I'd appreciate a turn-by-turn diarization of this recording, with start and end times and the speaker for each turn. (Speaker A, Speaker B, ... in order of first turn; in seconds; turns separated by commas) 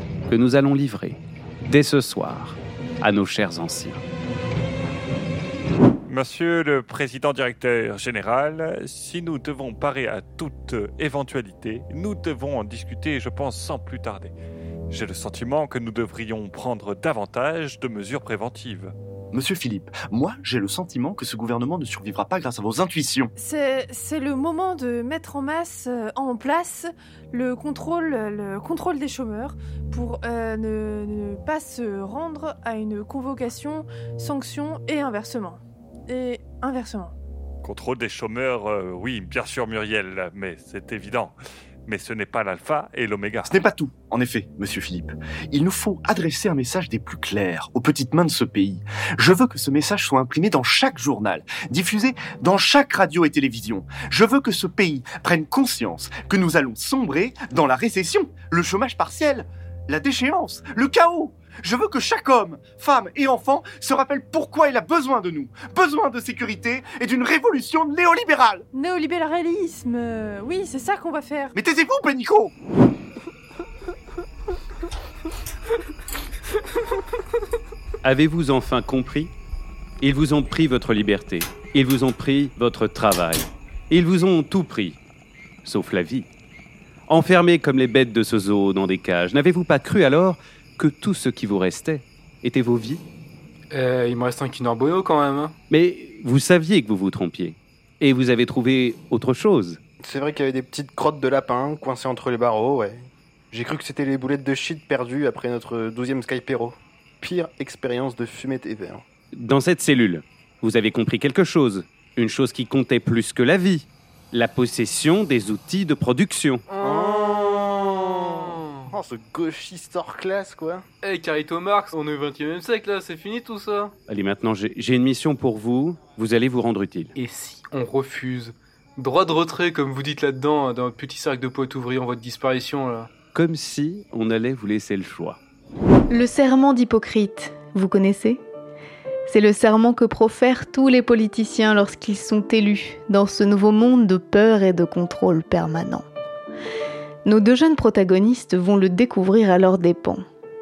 Speaker A: 0.3-4.0, Speaker B: 6.1-14.3, Speaker B: 14.9-18.9, Speaker C: 19.3-23.3, Speaker D: 23.4-37.1, Speaker B: 37.6-43.6, Speaker C: 43.5-68.7, Speaker D: 68.7-71.5, Speaker C: 71.5-72.5, Speaker A: 78.0-79.3, Speaker A: 80.0-85.0, Speaker A: 85.6-86.3, Speaker A: 87.1-93.0, Speaker E: 93.7-95.5, Speaker A: 95.7-99.8, Speaker F: 100.0-109.0, Speaker A: 109.3-116.6, Speaker E: 116.7-117.4, Speaker F: 116.8-120.8, Speaker E: 121.0-123.9, Speaker A: 124.1-127.1, Speaker E: 127.1-133.1, Speaker A: 133.3-135.4, Speaker G: 136.1-138.4, Speaker G: 139.3-146.0, Speaker G: 147.2-150.2